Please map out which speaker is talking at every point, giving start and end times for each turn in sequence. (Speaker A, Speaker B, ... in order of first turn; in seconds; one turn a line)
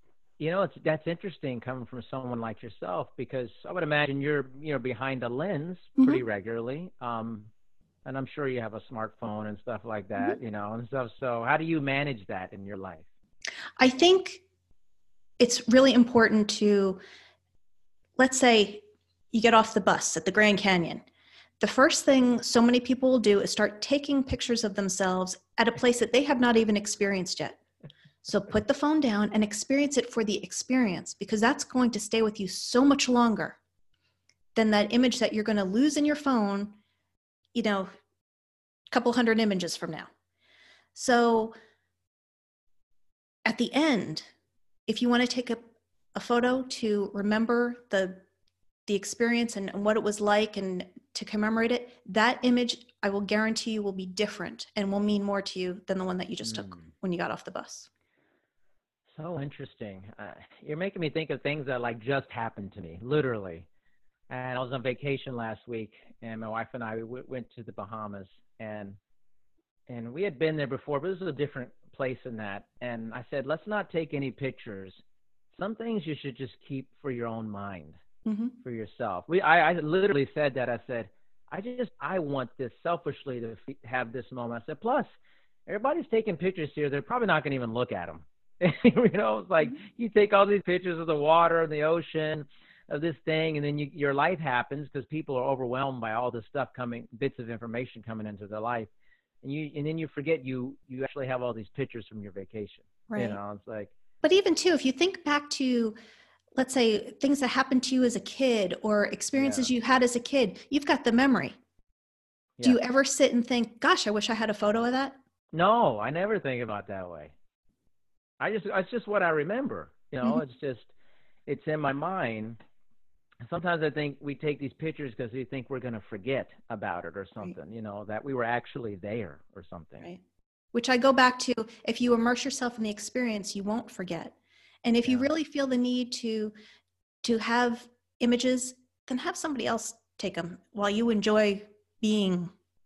Speaker A: 0.4-7.5
Speaker B: 6.0-6.2
Speaker A: 8.1-13.1
Speaker B: 13.8-14.4
Speaker B: 15.4-17.0
Speaker B: 18.2-21.1
Speaker B: 21.6-27.6
Speaker B: 28.2-33.6
Speaker B: 34.5-36.8
Speaker B: 37.5-37.9
Speaker B: 38.9-40.1
Speaker B: 41.0-41.5
Speaker B: 43.5-44.3
Speaker B: 44.9-45.6
Speaker B: 46.1-48.2
Speaker B: 48.9-57.9
Speaker A: 56.4-56.9
Speaker A: 59.1-63.7
Speaker A: 64.3-69.0
Speaker A: 69.9-75.0
Speaker A: 75.5-78.0
Speaker B: 78.2-78.6
Speaker A: 78.6-85.1
Speaker A: 85.7-98.9
Speaker A: 99.4-103.9
Speaker B: 103.1-103.4
Speaker B: 104.2-106.0
Speaker B: 106.6-111.6
Speaker A: 109.3-109.7
Speaker B: 112.6-115.2
Speaker A: 115.5-117.3
Speaker A: 118.4-120.9
Speaker A: 121.5-122.6
Speaker A: 123.4-130.1
Speaker B: 130.7-136.5
Speaker A: 135.1-135.3
Speaker B: 137.2-142.5